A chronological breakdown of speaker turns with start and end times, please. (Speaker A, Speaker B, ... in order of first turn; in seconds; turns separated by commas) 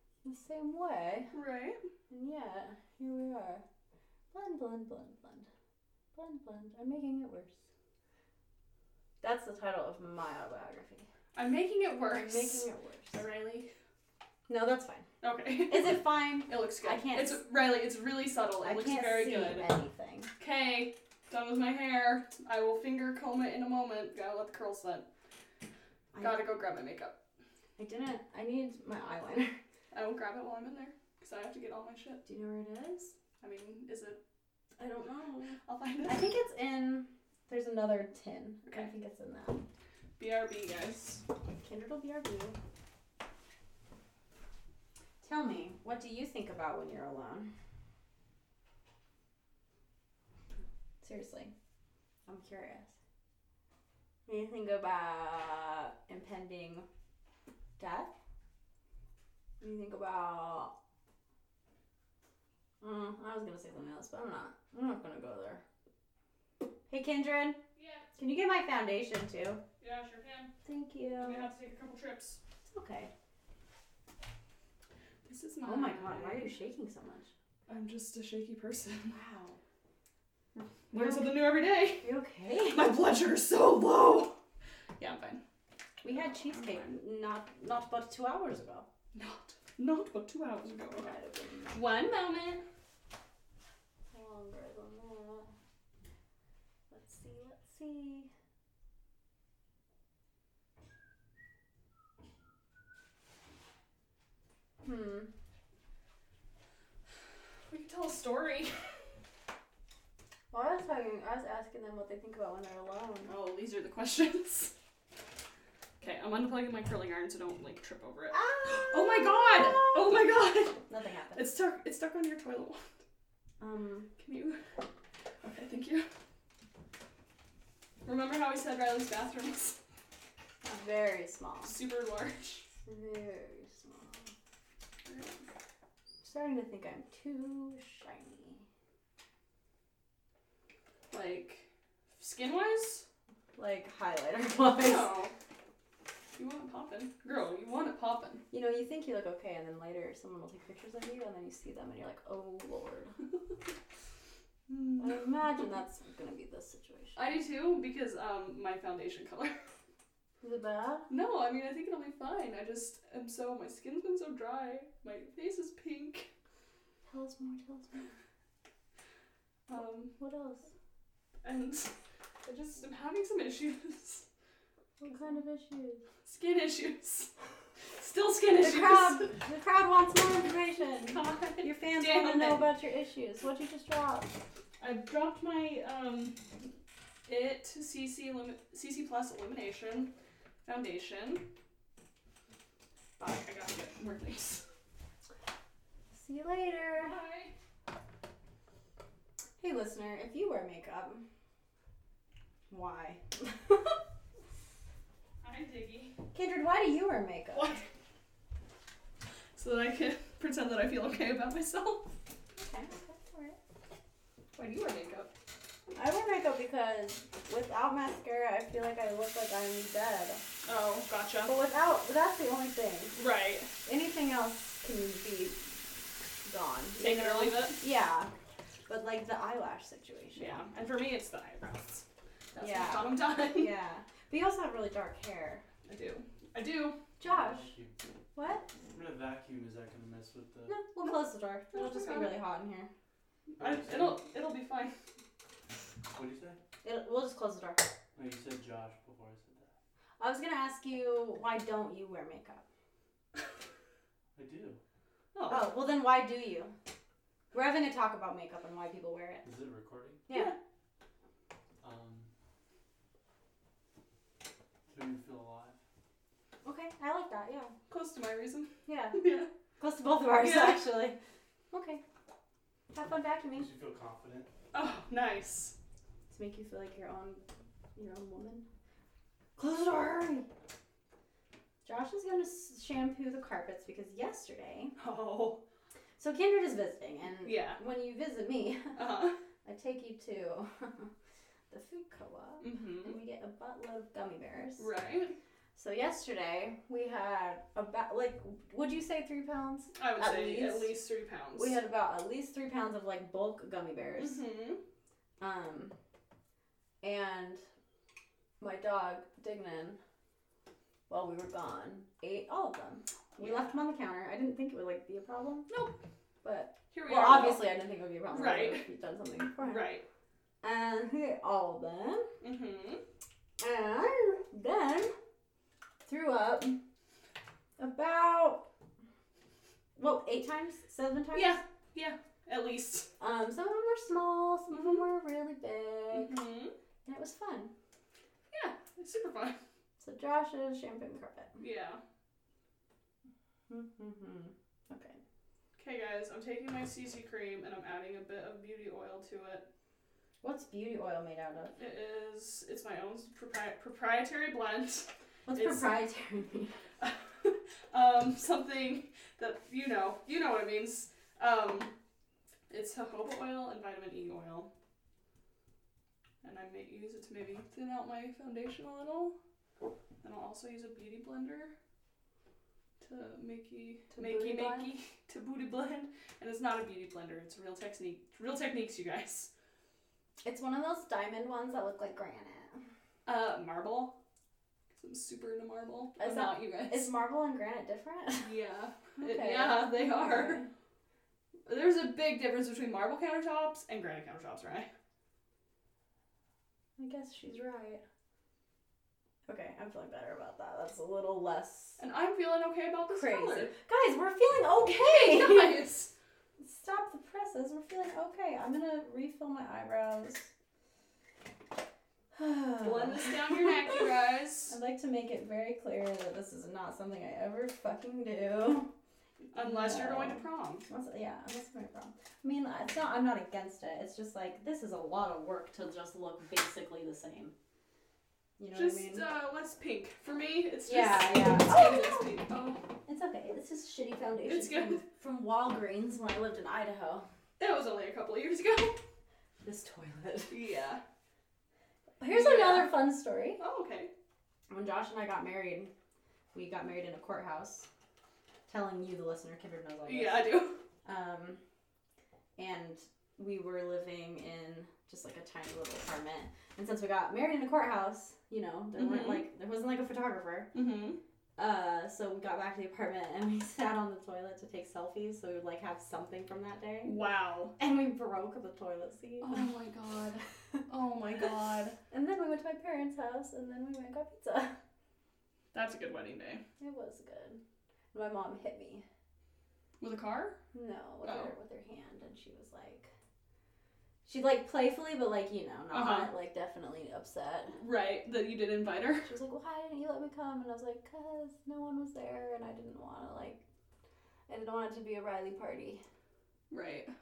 Speaker A: 0.2-1.3, Speaker B: 1.3-1.8, Speaker A: 2.1-3.6, Speaker A: 4.3-5.5, Speaker A: 6.1-7.6, Speaker A: 9.2-11.1, Speaker B: 11.3-13.7, Speaker A: 12.0-13.2, Speaker A: 14.5-15.1, Speaker B: 15.2-19.7, Speaker A: 15.7-17.4, Speaker A: 18.6-20.3, Speaker B: 20.4-25.1, Speaker A: 26.1-26.5, Speaker B: 26.2-27.2, Speaker A: 27.8-29.5, Speaker B: 29.9-32.2, Speaker A: 32.2-33.1, Speaker B: 33.4-34.2, Speaker A: 34.8-39.7, Speaker B: 35.6-36.3, Speaker B: 40.2-41.2, Speaker A: 41.6-42.6, Speaker A: 45.2-47.5, Speaker A: 51.0-51.5, Speaker A: 52.3-52.9, Speaker A: 54.3-56.9, Speaker A: 57.8-58.1, Speaker A: 59.6-60.7, Speaker A: 62.8-65.6, Speaker A: 66.9-67.6, Speaker B: 67.8-68.1, Speaker A: 68.2-69.6, Speaker B: 69.8-70.5, Speaker A: 70.7-71.5, Speaker B: 71.2-72.4, Speaker A: 72.7-73.1, Speaker B: 75.2-76.5, Speaker A: 75.6-77.3, Speaker B: 77.7-79.2, Speaker A: 79.1-79.6, Speaker B: 80.6-82.1, Speaker A: 80.9-82.9, Speaker B: 82.7-84.4, Speaker B: 85.0-85.4, Speaker A: 86.0-88.9, Speaker B: 86.5-86.9, Speaker B: 89.1-91.2, Speaker A: 90.9-91.8, Speaker B: 91.7-92.6, Speaker A: 94.1-95.5, Speaker A: 96.9-98.3, Speaker A: 104.8-105.3, Speaker B: 107.7-108.9, Speaker A: 110.5-113.3, Speaker B: 113.3-114.7, Speaker B: 116.0-120.8, Speaker A: 118.3-120.2, Speaker A: 120.8-121.5, Speaker B: 121.3-122.9, Speaker A: 123.6-124.1, Speaker B: 124.2-124.6, Speaker B: 125.4-126.1, Speaker B: 128.0-129.8, Speaker A: 130.6-131.8, Speaker B: 131.6-132.7, Speaker A: 132.9-134.3, Speaker B: 135.1-135.4, Speaker A: 136.2-138.7, Speaker B: 141.1-143.1, Speaker A: 143.6-145.1, Speaker B: 144.8-145.3, Speaker B: 146.4-148.4, Speaker A: 148.5-153.2, Speaker B: 154.7-155.2, Speaker A: 155.0-157.4, Speaker B: 157.2-159.6, Speaker A: 160.4-161.1, Speaker B: 161.1-166.3, Speaker A: 167.1-168.1, Speaker B: 169.7-170.2, Speaker A: 170.2-170.7, Speaker B: 171.4-171.9, Speaker B: 172.4-174.3, Speaker A: 175.0-176.0, Speaker B: 176.2-177.3, Speaker B: 177.9-179.4, Speaker A: 178.6-184.4, Speaker B: 181.2-182.7, Speaker B: 184.8-186.4, Speaker B: 187.3-190.1, Speaker B: 190.7-191.5, Speaker B: 193.2-194.7, Speaker A: 196.1-197.2, Speaker B: 197.0-197.6, Speaker A: 199.6-201.2, Speaker A: 202.7-203.8, Speaker B: 205.4-206.2, Speaker A: 206.3-207.8, Speaker B: 207.5-207.9, Speaker B: 209.6-212.1, Speaker A: 212.6-213.6, Speaker B: 214.6-215.3, Speaker A: 215.9-220.4, Speaker B: 220.6-221.6, Speaker A: 221.5-223.2, Speaker B: 223.2-223.7, Speaker A: 223.8-225.6, Speaker A: 226.4-228.3, Speaker B: 227.0-227.8, Speaker A: 228.9-230.6, Speaker B: 230.4-233.7, Speaker A: 232.6-235.7, Speaker B: 235.9-237.0, Speaker A: 237.2-237.7, Speaker C: 237.2-238.0, Speaker A: 238.3-238.7, Speaker C: 238.9-240.8, Speaker A: 240.7-242.9, Speaker B: 241.7-242.4, Speaker B: 243.5-244.9, Speaker C: 243.6-244.2, Speaker C: 246.1-246.6, Speaker A: 246.8-247.9, Speaker C: 248.2-249.7, Speaker A: 250.2-252.6, Speaker C: 254.3-254.8, Speaker B: 255.3-255.7, Speaker A: 255.5-256.7, Speaker A: 257.5-259.4, Speaker C: 259.4-260.3, Speaker A: 260.3-260.6, Speaker C: 261.8-262.3, Speaker C: 264.9-265.8, Speaker A: 266.6-267.7, Speaker B: 267.9-269.5, Speaker A: 268.9-269.2, Speaker A: 269.8-271.2, Speaker B: 270.4-270.9, Speaker A: 271.7-272.0, Speaker A: 272.9-273.7, Speaker C: 273.6-274.5, Speaker B: 274.7-275.8, Speaker A: 276.3-277.4, Speaker A: 278.0-278.6, Speaker A: 279.6-280.5, Speaker A: 281.9-284.9, Speaker B: 285.0-285.6, Speaker A: 286.2-289.0, Speaker B: 287.4-287.8, Speaker B: 288.9-289.4, Speaker A: 289.6-291.1, Speaker A: 291.7-294.9, Speaker B: 292.6-293.2, Speaker B: 294.8-295.4, Speaker A: 295.8-300.9, Speaker B: 300.0-301.8, Speaker A: 301.6-304.4, Speaker B: 304.2-304.8, Speaker A: 305.4-305.9, Speaker A: 307.0-307.6, Speaker A: 308.6-310.0, Speaker A: 311.1-315.7, Speaker B: 313.4-313.8, Speaker B: 315.7-316.0, Speaker A: 316.4-319.9, Speaker B: 316.9-317.7, Speaker B: 318.3-318.9, Speaker B: 319.6-320.1, Speaker A: 320.6-322.3, Speaker B: 322.4-323.0, Speaker A: 323.6-325.1, Speaker A: 326.0-326.8, Speaker A: 327.8-328.7, Speaker A: 330.0-331.6, Speaker B: 331.3-333.1, Speaker A: 333.2-336.4, Speaker B: 334.7-335.0, Speaker B: 336.1-336.7, Speaker A: 337.1-337.7, Speaker B: 338.5-339.6, Speaker A: 340.0-341.6, Speaker B: 341.6-342.0, Speaker A: 343.7-345.2, Speaker B: 345.8-349.7, Speaker A: 350.4-351.8, Speaker B: 351.8-355.9, Speaker A: 355.5-356.7, Speaker B: 357.0-361.9, Speaker B: 362.7-364.7, Speaker B: 366.4-369.4, Speaker B: 370.2-371.7, Speaker B: 373.0-379.5, Speaker A: 374.1-374.9, Speaker A: 380.4-382.8, Speaker B: 383.2-384.2, Speaker B: 384.9-387.1, Speaker A: 386.2-388.5, Speaker B: 388.4-390.6, Speaker A: 389.2-390.7, Speaker B: 391.7-394.9, Speaker A: 397.0-398.0, Speaker A: 399.5-402.0, Speaker B: 402.0-403.7, Speaker A: 403.1-405.8, Speaker B: 404.9-406.1, Speaker A: 406.6-410.5, Speaker A: 412.3-414.1, Speaker B: 412.8-414.8, Speaker A: 414.7-418.9, Speaker B: 419.5-420.9, Speaker A: 419.6-427.6, Speaker A: 428.6-429.3, Speaker B: 428.7-432.8, Speaker A: 430.9-432.4, Speaker A: 433.1-437.3, Speaker B: 434.5-435.0, Speaker B: 437.6-439.0, Speaker A: 439.6-440.6, Speaker B: 440.5-441.0, Speaker A: 442.2-443.6, Speaker B: 442.3-443.0, Speaker B: 443.6-444.1, Speaker A: 444.7-445.9, Speaker A: 446.5-447.9, Speaker A: 448.7-451.6, Speaker B: 450.1-450.8, Speaker A: 452.6-460.7, Speaker B: 459.0-459.5, Speaker B: 460.7-461.2, Speaker A: 461.6-467.2, Speaker B: 467.1-467.7, Speaker A: 467.8-469.7, Speaker B: 469.4-472.0, Speaker A: 472.1-474.8, Speaker B: 475.7-476.6, Speaker A: 476.8-477.6, Speaker A: 478.1-479.1, Speaker B: 480.0-480.6, Speaker A: 480.7-483.1, Speaker B: 481.2-481.5, Speaker A: 484.2-487.8, Speaker B: 485.9-486.3, Speaker B: 487.7-489.3, Speaker A: 489.2-493.6, Speaker A: 494.5-496.0, Speaker B: 496.7-497.1